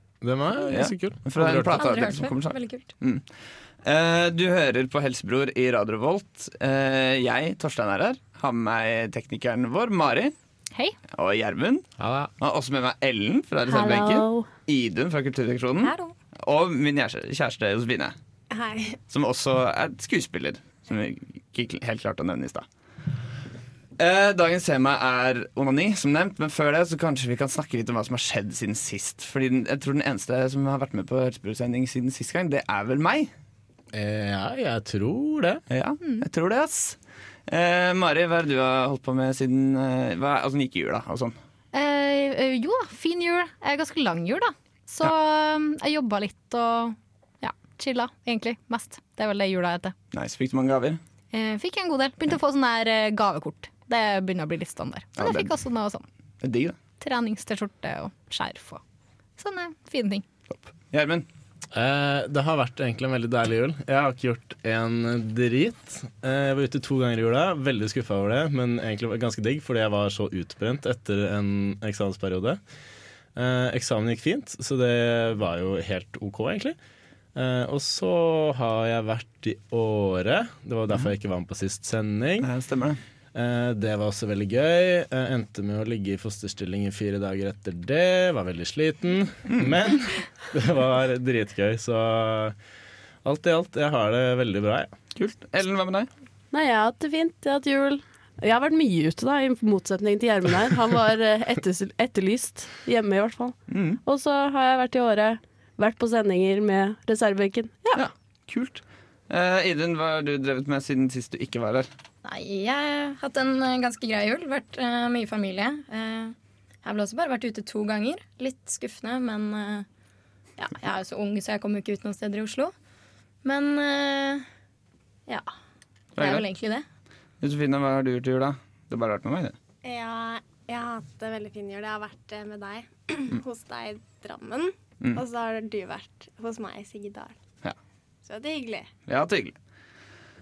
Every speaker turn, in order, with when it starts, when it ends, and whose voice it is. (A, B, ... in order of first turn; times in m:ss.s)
0:00.2-0:02.0 A
0:00.7-0:03.3 B
0:01.8-0:02.9 C
0:03.8-0:10.3 B
0:11.1-0:18.2 B
0:12.0-0:12.3 A
0:13.7-0:14.5 D
0:15.8-0:16.1 E
0:18.5-0:19.0 F
0:19.1-0:22.6 B
0:24.0-0:33.3 B
0:33.9-0:35.6 A
0:35.7-0:41.4 B
0:41.7-0:49.9 E
0:50.1-0:51.0 B
0:51.3-0:56.0 E
0:55.2-0:55.6 B
0:56.4-0:56.8 B
0:57.0-0:58.8 E
0:59.4-1:00.2 E
1:00.5-1:01.2 B
1:01.7-1:12.6 A
1:13.4-1:16.8 A
1:17.3-1:22.5 A
1:22.4-1:23.0 B
1:23.3-1:32.6 A
1:29.5-1:29.7 B
1:33.2-1:34.9 A
1:35.1-1:36.1 B
1:36.5-1:48.0 D
1:43.7-1:44.0 B
1:47.9-1:51.9 B
1:52.2-1:59.8 C
2:00.6-2:02.7 C
2:03.4-2:04.4 C
2:06.2-2:06.4 B
2:06.2-2:06.8 C
2:07.4-2:09.6 B
2:09.8-2:17.4 F
2:18.2-2:18.9 F
2:19.1-2:19.5 B